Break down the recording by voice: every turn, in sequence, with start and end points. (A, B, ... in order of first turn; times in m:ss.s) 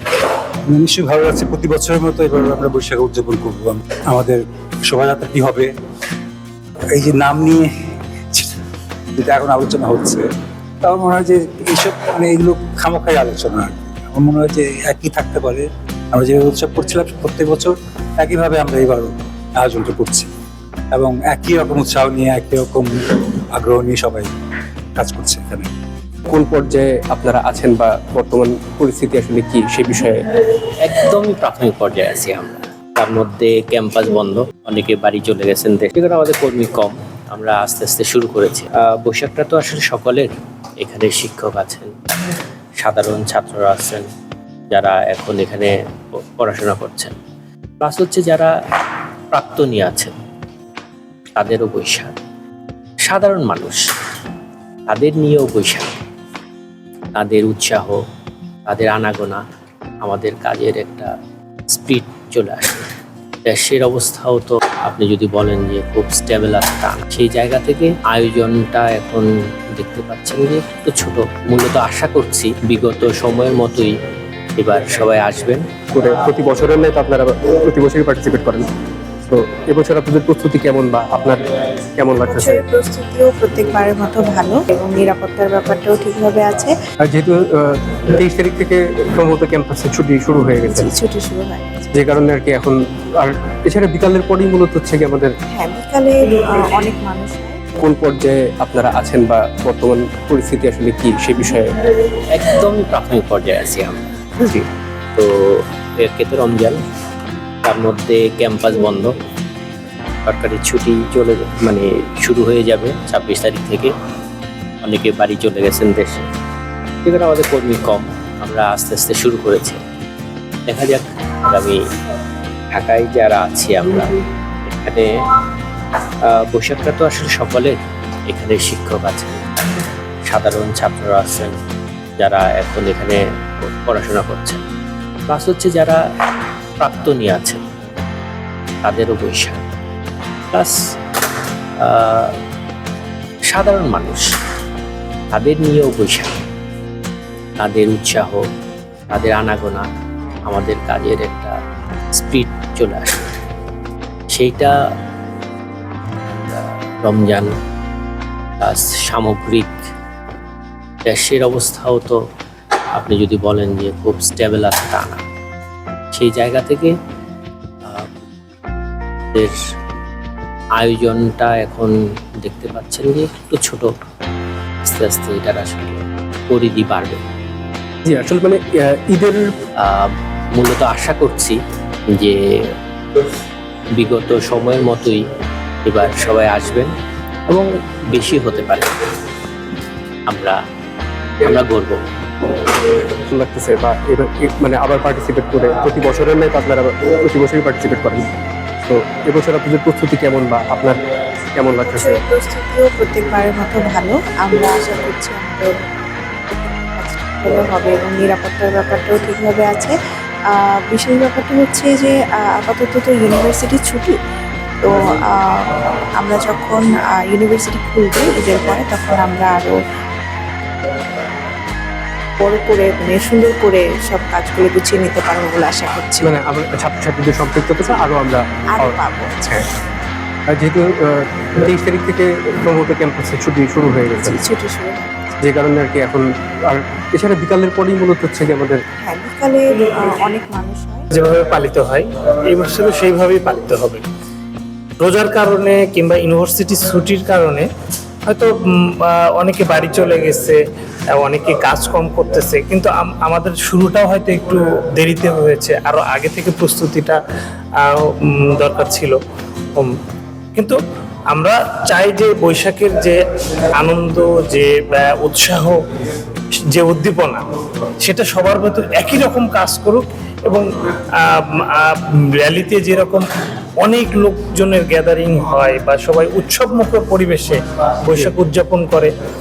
0:00.7-0:05.7 A
0:06.9-0:07.7 A
0:08.3-0:08.6 A
0:09.2-0:10.2 A
0:10.8-0:20.3 A
0:20.9-0:24.3 A
0:25.0-0:25.7 A
0:26.3-0:30.2 B
0:30.5-0:44.1 C
0:44.7-0:47.1 C
0:47.8-0:48.5 C
0:49.3-0:50.1 C
0:51.4-0:52.1 C
0:53.0-0:53.8 C
0:54.9-0:55.9 C
0:57.1-0:58.0 C
0:58.6-0:59.4 C
1:00.0-1:01.1 C
1:01.7-1:02.8 C
1:03.4-1:13.9 C
1:14.6-1:15.6 C
1:15.9-1:18.7 B
1:19.3-1:21.4 B
1:22.0-1:22.6 B
1:22.2-1:26.7 D
1:27.0-1:30.9 B
1:30.6-1:32.1 D
1:31.9-1:35.3 B
1:35.5-1:37.6 D
1:37.8-1:41.8 B
1:42.1-1:44.0 C
1:45.2-1:46.8 C
1:47.6-1:49.1 C
1:50.2-1:53.9 C
1:54.8-1:56.3 C
1:57.0-1:59.8 C
2:00.7-2:01.8 C
2:02.7-2:05.3 C
2:06.2-2:09.5 C
2:10.2-2:11.5 C
2:12.2-2:14.6 C
2:15.3-2:16.0 C
2:16.8-2:17.6 C
2:18.8-2:19.6 C
2:20.5-2:20.8 C
2:21.8-2:22.4 C
2:23.4-2:24.3 C
2:25.3-2:26.3 C
2:27.6-2:28.4 C
2:29.1-2:29.9 C
2:30.4-2:31.6 C
2:32.1-2:33.2 C
2:34.3-2:34.7 C
2:36.5-2:37.5 C
2:38.6-2:39.8 C
2:41.0-2:42.2 C
2:42.9-2:45.2 C
2:46.1-2:46.9 C
2:47.8-2:48.1 C
2:49.3-2:49.6 C
2:50.8-2:53.9 C
2:54.8-2:57.2 C
2:58.0-2:59.5 B
2:59.8-3:01.6 C
3:02.1-3:02.7 C
3:03.9-3:05.2 C
3:05.8-3:06.9 C
3:07.5-3:08.9 C
3:10.3-3:10.6 C
3:11.4-3:12.0 C
3:13.1-3:18.3 B
3:18.8-3:21.0 B
3:21.6-3:22.2 B
3:21.7-3:30.0 D
3:30.5-3:34.2 D
3:34.8-3:39.8 D
3:42.4-3:46.4 D
3:46.2-3:49.6 B
3:48.8-3:49.6 D
3:50.5-3:54.4 B
3:54.1-3:55.4 D
3:55.4-3:58.8 B
3:59.0-4:01.1 D
4:01.1-4:04.0 E
4:05.0-4:07.6 E
4:08.3-4:17.2 E
4:17.8-4:19.2 E
4:21.3-4:23.2 E
4:23.8-4:25.8 E
4:26.7-4:27.4 E
4:28.0-4:33.2 E
4:33.8-4:39.1 E